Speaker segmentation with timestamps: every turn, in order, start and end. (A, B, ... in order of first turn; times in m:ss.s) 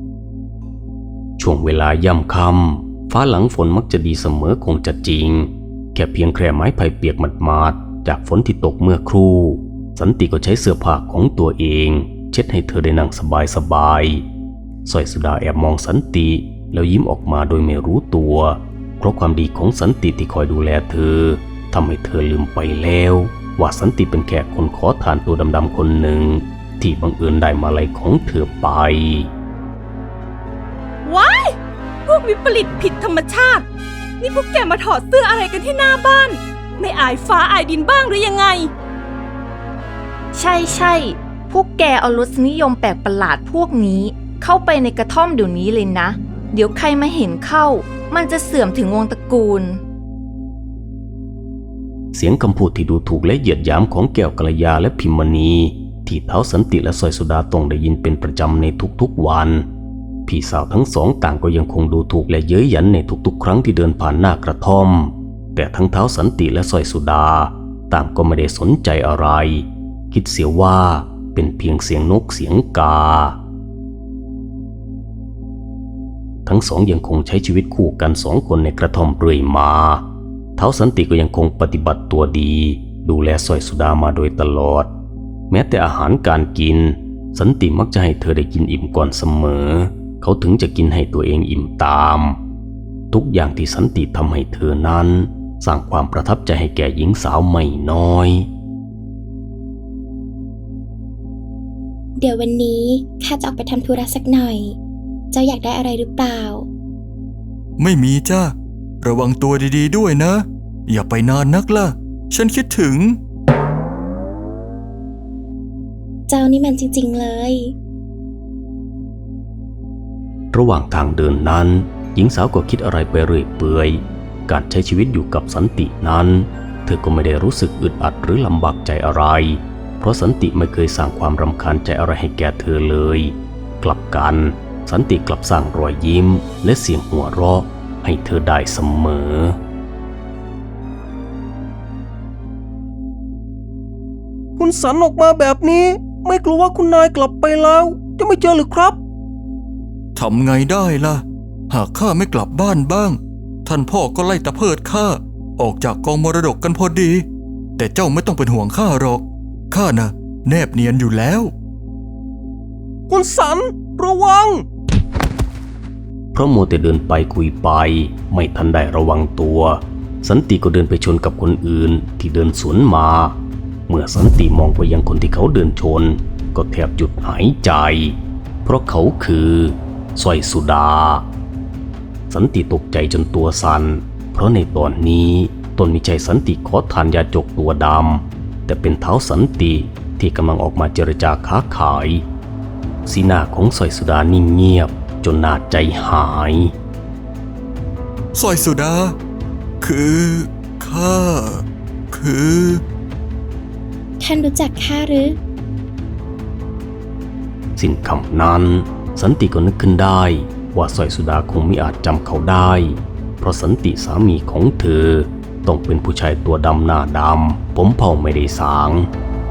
0:01.4-0:14.2 A
0:14.8-0:29.3 A
0:31.0-0:31.5 B
0:32.1-0:33.6 B
0:34.2-0:38.7 B
0:40.3-0:49.8 C
0:52.1-0:59.6 A
1:00.3-1:13.4 A
1:16.4-1:20.0 A
1:20.6-1:24.9 A
1:25.5-1:32.4 A
1:33.1-1:38.5 A
1:42.2-1:44.8 D
1:45.3-1:46.7 D
1:47.8-1:53.2 E
1:56.3-1:57.8 D
2:00.5-2:19.6 A
2:24.6-2:29.0 F
2:30.1-2:37.2 E
2:37.8-2:41.5 E
2:43.1-2:44.6 F
2:46.3-2:53.4 A
2:53.9-3:01.2 A
3:02.3-3:12.2 A
3:13.0-3:16.7 A
3:18.3-3:19.2 E
3:19.8-3:22.8 E
3:24.2-3:25.4 D
3:27.8-3:39.1 A